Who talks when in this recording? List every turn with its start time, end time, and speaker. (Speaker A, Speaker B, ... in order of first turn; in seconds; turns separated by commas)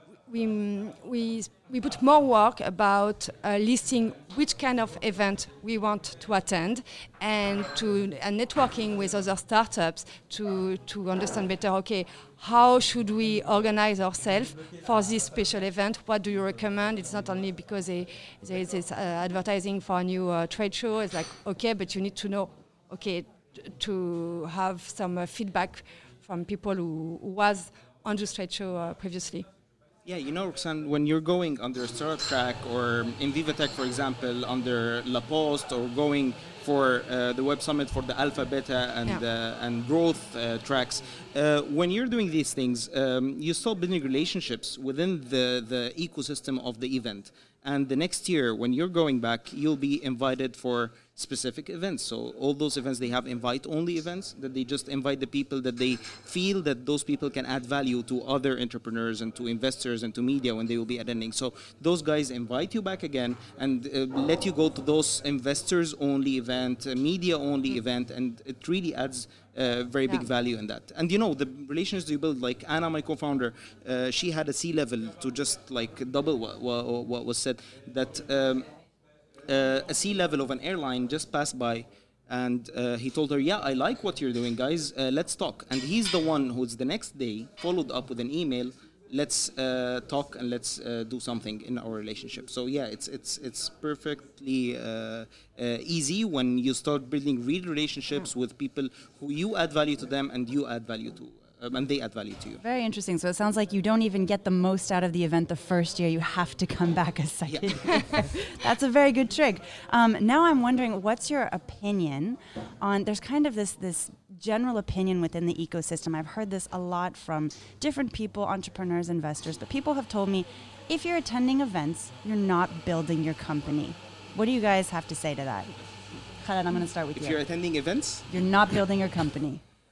Speaker A: 0.3-29.5, Speaker B: 30.1-78.7, Speaker B: 79.5-102.6, Speaker C: 102.6-125.7, Speaker B: 107.5-108.0, Speaker C: 126.4-127.4, Speaker B: 127.2-128.3, Speaker C: 128.3-129.6